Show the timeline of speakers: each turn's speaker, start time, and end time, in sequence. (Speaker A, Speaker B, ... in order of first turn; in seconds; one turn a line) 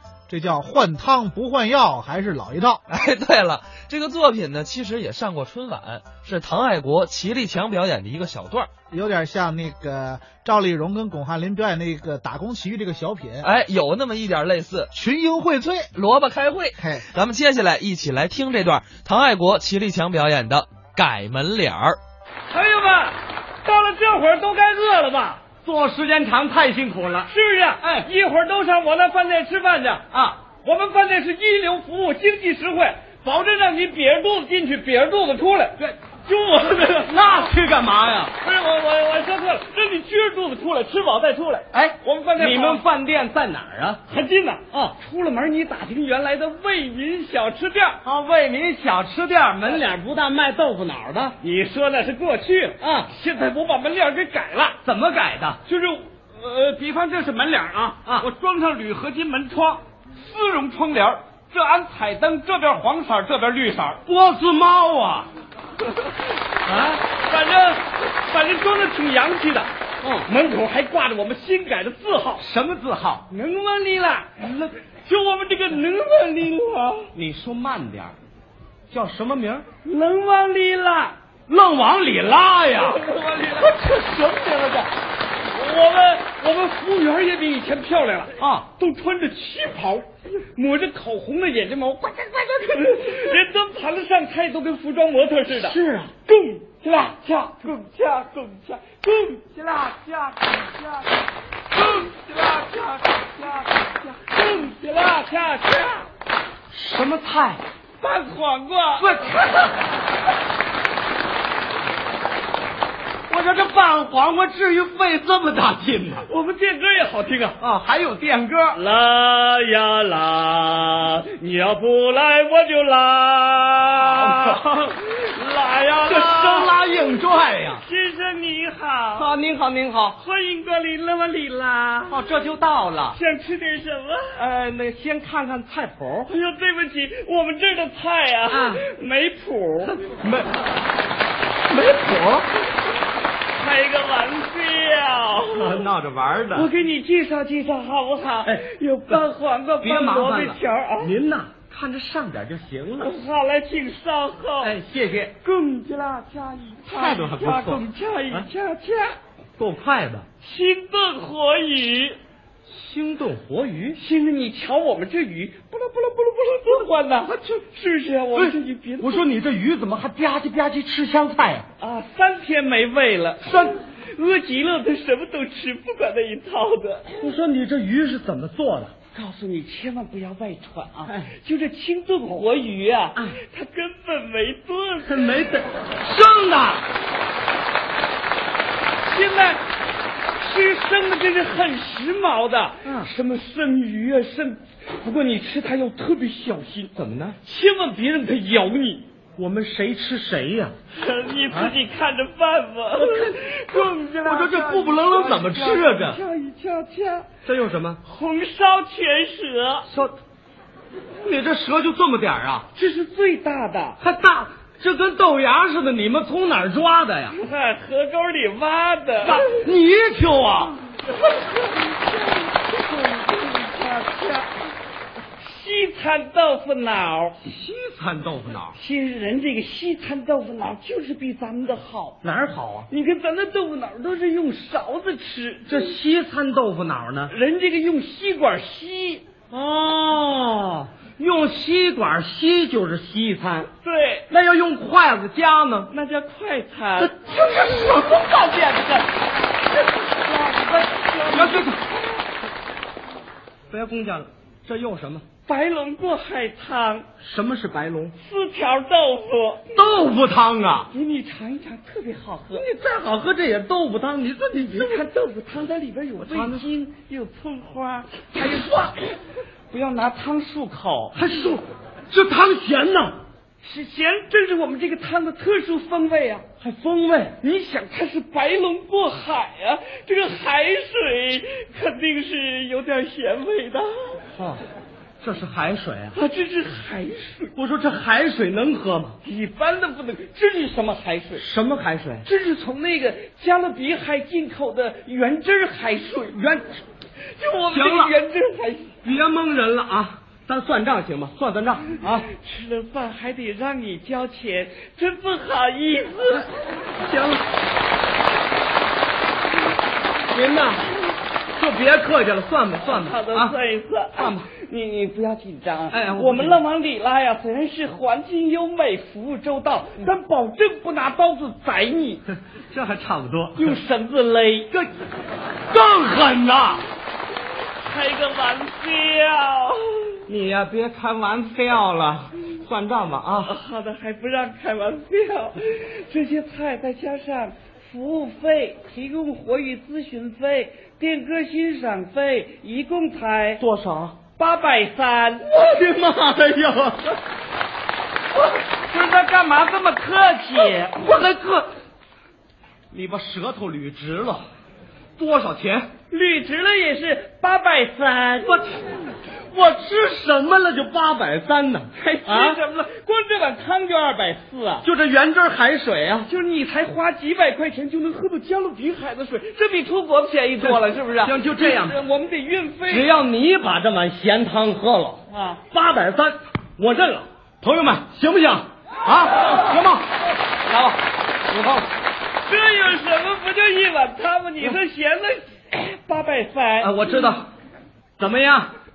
Speaker A: 0.3-2.8
Speaker B: 2.9-8.7
Speaker A: 8.9-13.5
Speaker B: 13.4-14.9
Speaker A: 14.9-15.9
Speaker B: 15.9-22.0
Speaker A: 16.8-17.1
Speaker C: 22.5-25.4
Speaker D: 25.6-27.3
Speaker C: 27.3-30.1
Speaker D: 27.8-28.1
Speaker D: 30.1-30.4
Speaker C: 30.6-37.5
Speaker D: 37.0-38.3
Speaker C: 38.4-42.9
Speaker D: 41.7-44.0
Speaker C: 44.1-48.0
Speaker D: 48.0-51.4
Speaker C: 51.4-54.8
Speaker D: 52.8-53.1
Speaker D: 54.8-55.6
Speaker C: 55.6-64.0
Speaker D: 64.1-65.3
Speaker D: 66.7-67.0
Speaker C: 66.8-69.7
Speaker D: 70.0-70.3
Speaker C: 70.3-72.5
Speaker D: 72.4-73.2
Speaker C: 73.3-77.1
Speaker D: 77.1-78.2
Speaker D: 78.9-79.7
Speaker C: 79.8-81.2
Speaker D: 81.5-83.0
Speaker C: 82.8-83.7
Speaker D: 83.6-84.9
Speaker C: 85.5-101.2
Speaker D: 88.4-88.7
Speaker D: 95.5-96.1
Speaker C: 101.7-106.1
Speaker D: 106.7-107.6
Speaker C: 108.0-109.4
Speaker D: 109.0-109.7
Speaker D: 113.3-116.3
Speaker C: 116.3-117.6
Speaker D: 117.6-118.8
Speaker C: 118.8-127.1
Speaker D: 124.1-124.6
Speaker D: 125.9-127.8
Speaker C: 127.7-129.3
Speaker D: 129.2-130.2
Speaker C: 130.2-132.3
Speaker D: 132.1-133.2
Speaker C: 133.1-134.4
Speaker D: 134.4-136.3
Speaker C: 136.3-139.9
Speaker D: 138.5-138.8
Speaker D: 139.9-140.5
Speaker D: 141.7-142.5
Speaker C: 143.6-145.9
Speaker D: 145.5-146.7
Speaker C: 146.5-151.1
Speaker D: 148.4-149.2
Speaker D: 149.8-153.2
Speaker C: 153.0-154.8
Speaker D: 154.6-155.3
Speaker C: 155.4-159.2
Speaker D: 156.9-158.5
Speaker D: 159.6-160.3
Speaker C: 160.4-162.2
Speaker D: 162.7-164.0
Speaker C: 164.0-169.2
Speaker D: 168.3-171.7
Speaker C: 171.8-177.3
Speaker D: 173.4-173.8
Speaker D: 177.1-178.9
Speaker C: 179.1-185.2
Speaker D: 181.1-181.3
Speaker D: 185.1-186.8
Speaker C: 189.1-189.6
Speaker C: 190.4-199.1
Speaker D: 192.8-193.1
Speaker D: 196.9-197.4
Speaker D: 199.4-200.8
Speaker C: 200.9-207.3
Speaker D: 203.0-206.2
Speaker D: 207.4-208.0
Speaker C: 208.0-209.9
Speaker D: 209.9-210.2
Speaker D: 211.2-212.7
Speaker C: 212.7-214.0
Speaker D: 214.0-217.4
Speaker C: 217.3-219.5
Speaker D: 219.2-220.8
Speaker C: 221.0-224.6
Speaker C: 225.4-227.4
Speaker D: 227.4-228.8
Speaker C: 228.7-232.2
Speaker D: 232.2-232.9
Speaker C: 232.9-236.0
Speaker D: 235.7-237.3
Speaker C: 237.3-239.3
Speaker D: 239.5-243.7
Speaker C: 243.8-244.3
Speaker D: 244.3-245.9
Speaker C: 245.9-247.2
Speaker D: 247.0-249.0
Speaker C: 248.2-249.0
Speaker C: 250.0-251.7
Speaker D: 251.3-251.8
Speaker D: 253.7-255.2
Speaker C: 255.5-257.1
Speaker D: 257.2-258.1
Speaker C: 258.2-259.7
Speaker D: 259.7-260.9
Speaker C: 260.9-262.6
Speaker D: 262.6-265.0
Speaker C: 264.5-269.2
Speaker D: 266.2-266.7
Speaker C: 269.7-271.1
Speaker D: 271.1-273.2
Speaker C: 273.6-276.5
Speaker D: 276.6-277.4
Speaker C: 277.4-284.2
Speaker D: 284.3-284.6
Speaker D: 285.2-286.2
Speaker C: 286.1-287.5
Speaker D: 287.6-289.2
Speaker C: 289.2-291.5
Speaker D: 291.4-292.3
Speaker C: 292.2-298.9
Speaker D: 297.7-298.1
Speaker D: 299.0-302.3
Speaker C: 302.0-306.5
Speaker D: 307.0-307.4
Speaker D: 310.3-310.9
Speaker D: 311.6-313.6
Speaker C: 312.9-322.2
Speaker D: 314.2-314.5
Speaker D: 315.9-316.6
Speaker D: 322.7-323.8
Speaker C: 323.6-324.7
Speaker D: 325.7-326.9
Speaker C: 327.8-330.2
Speaker D: 330.3-333.5
Speaker C: 333.4-343.6
Speaker D: 343.6-344.2
Speaker C: 344.4-345.5
Speaker D: 345.5-347.1
Speaker C: 348.9-351.0
Speaker D: 350.6-351.7
Speaker D: 352.9-354.4
Speaker D: 355.2-355.9
Speaker C: 356.1-358.8
Speaker D: 358.5-358.8
Speaker D: 359.5-362.6
Speaker C: 362.2-364.9
Speaker D: 364.8-366.3
Speaker C: 366.3-373.1
Speaker D: 370.6-372.0
Speaker D: 372.9-380.1
Speaker C: 375.3-375.6
Speaker D: 380.7-381.0
Speaker D: 381.5-381.9
Speaker C: 382.4-387.2
Speaker D: 386.8-387.5
Speaker D: 388.2-388.7